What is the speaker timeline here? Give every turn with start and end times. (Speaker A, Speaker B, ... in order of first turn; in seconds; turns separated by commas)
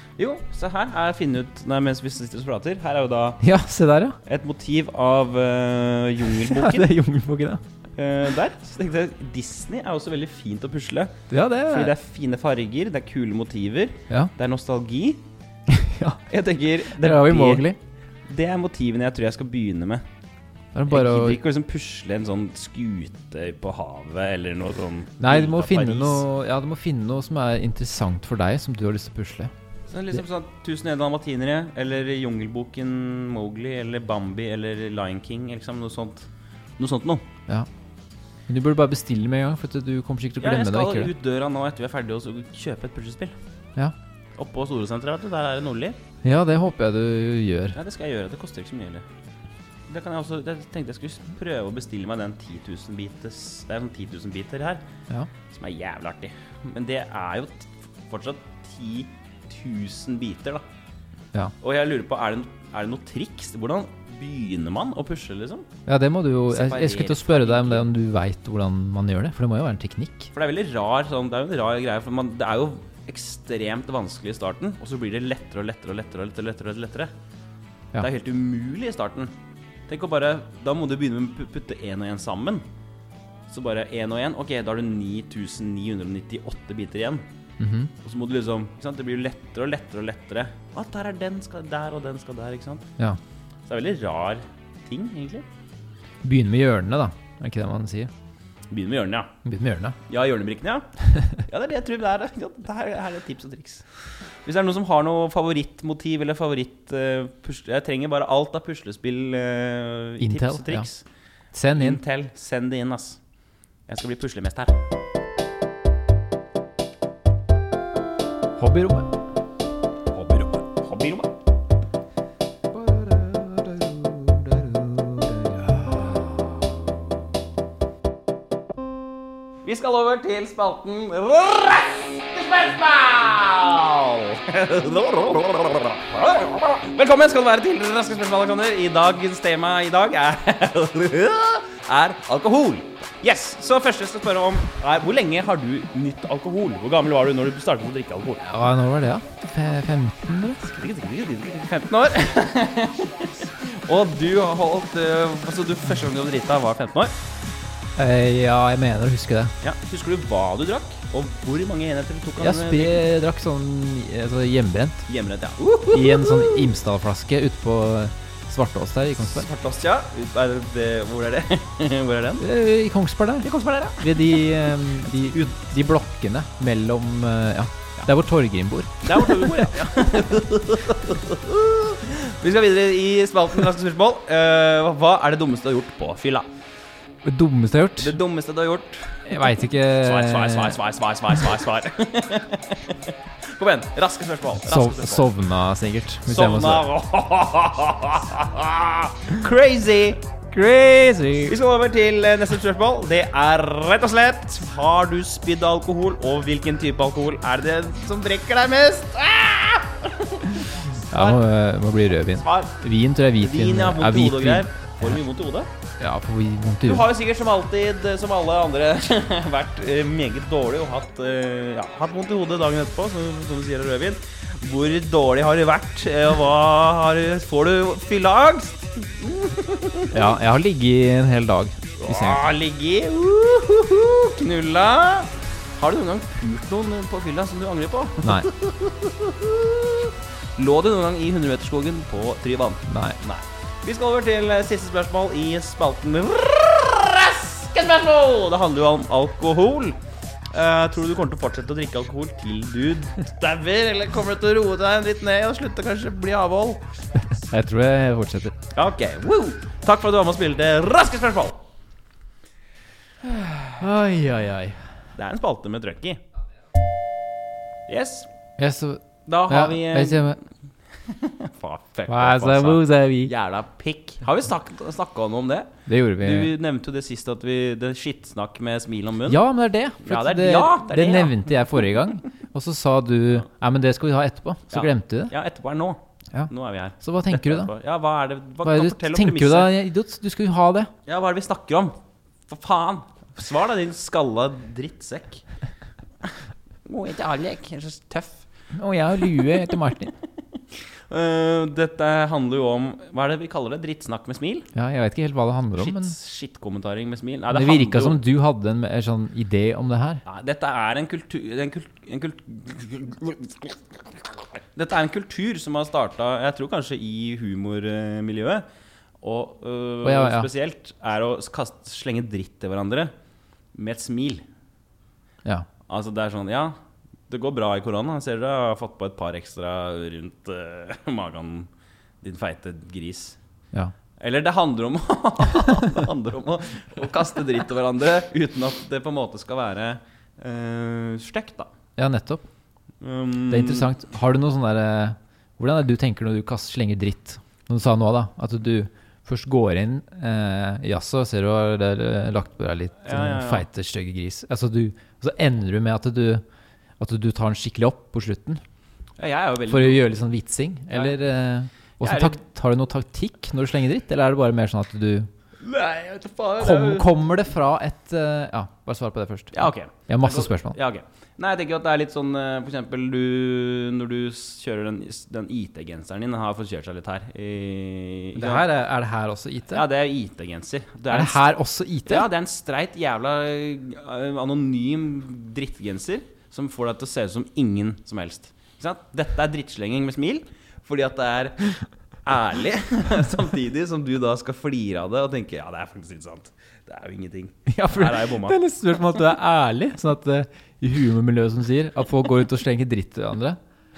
Speaker A: 0.2-3.4, Speaker B: 3.4-4.2, Speaker A: 4.2-6.9, Speaker B: 6.4-7.6, Speaker A: 8.0-15.2, Speaker B: 11.3-11.9, Speaker B: 15.7-16.2, Speaker A: 16.3-17.7, Speaker B: 16.9-17.8, Speaker A: 18.3-20.0, Speaker B: 20.7-21.4, Speaker A: 20.9-26.2, Speaker B: 25.2-29.5, Speaker A: 29.9-37.3, Speaker B: 38.5-41.1, Speaker A: 40.4-43.4, Speaker A: 44.4-46.0, Speaker B: 46.2-47.8, Speaker A: 47.7-49.0, Speaker A: 49.9-54.8, Speaker A: 55.5-60.6, Speaker A: 61.6-65.7, Speaker B: 65.9-70.3, Speaker A: 66.5-67.9, Speaker A: 70.3-77.1, Speaker A: 78.0-79.3, Speaker A: 79.9-82.6, Speaker A: 83.5-87.2, Speaker B: 87.6-87.9, Speaker A: 88.0-92.9, Speaker A: 93.7-95.5, Speaker B: 96.2-98.1, Speaker A: 98.7-99.3, Speaker B: 99.5-100.0, Speaker A: 100.1-103.9, Speaker A: 104.5-111.0, Speaker B: 110.2-110.9, Speaker B: 111.5-112.0, Speaker A: 111.7-113.2, Speaker A: 113.9-114.7, Speaker B: 118.6-119.1, Speaker A: 120.1-121.3, Speaker B: 122.7-126.7, Speaker A: 129.6-148.4, Speaker B: 148.4-150.6, Speaker A: 150.6-157.1, Speaker B: 158.0-159.5, Speaker A: 159.6-163.0, Speaker B: 162.4-165.1, Speaker A: 165.1-166.7, Speaker B: 165.9-169.4, Speaker A: 169.2-172.5, Speaker B: 172.4-179.7, Speaker A: 173.4-174.4, Speaker A: 179.0-186.5, Speaker B: 187.2-188.2, Speaker A: 188.0-195.3, Speaker B: 189.3-190.8, Speaker B: 194.6-196.9, Speaker A: 196.3-200.2, Speaker B: 200.5-201.6, Speaker A: 201.4-211.4, Speaker B: 211.1-215.2, Speaker A: 212.4-212.8, Speaker A: 213.4-215.7, Speaker B: 216.0-217.1, Speaker A: 216.8-230.3, Speaker B: 230.1-232.4, Speaker A: 232.0-250.0, Speaker B: 238.2-238.5, Speaker B: 242.9-243.2, Speaker A: 250.5-256.8, Speaker B: 257.3-258.5, Speaker A: 258.7-261.6, Speaker A: 263.3-263.7, Speaker B: 263.8-264.8, Speaker A: 265.2-266.2, Speaker A: 267.9-268.3, Speaker B: 268.6-270.4, Speaker A: 269.3-270.4, Speaker A: 271.0-279.4, Speaker B: 272.1-273.3, Speaker B: 275.9-276.5, Speaker B: 279.3-285.4, Speaker A: 280.0-281.5, Speaker A: 284.7-289.7, Speaker B: 286.3-287.7, Speaker B: 288.6-290.9, Speaker A: 291.1-291.9, Speaker A: 292.5-295.4, Speaker A: 296.9-298.5, Speaker B: 298.7-300.2, Speaker A: 301.1-304.7, Speaker B: 304.7-306.2, Speaker A: 305.7-308.2, Speaker B: 307.5-310.2, Speaker A: 310.2-313.8, Speaker A: 314.7-318.6, Speaker A: 319.2-323.1, Speaker B: 320.0-320.5, Speaker A: 323.7-324.4, Speaker A: 325.9-326.7, Speaker A: 327.3-331.7, Speaker A: 332.2-333.4, Speaker A: 334.2-341.7, Speaker B: 342.0-342.4, Speaker A: 343.0-343.9, Speaker B: 343.5-356.4, Speaker A: 353.0-353.7, Speaker B: 357.0-358.6, Speaker A: 359.2-360.0, Speaker B: 359.7-365.3, Speaker A: 362.0-362.4, Speaker A: 365.6-367.3, Speaker B: 366.6-370.8, Speaker A: 369.5-378.7, Speaker B: 378.4-379.9, Speaker A: 379.7-381.5, Speaker B: 381.1-382.3, Speaker A: 382.1-391.7, Speaker A: 392.2-398.6, Speaker B: 397.7-403.6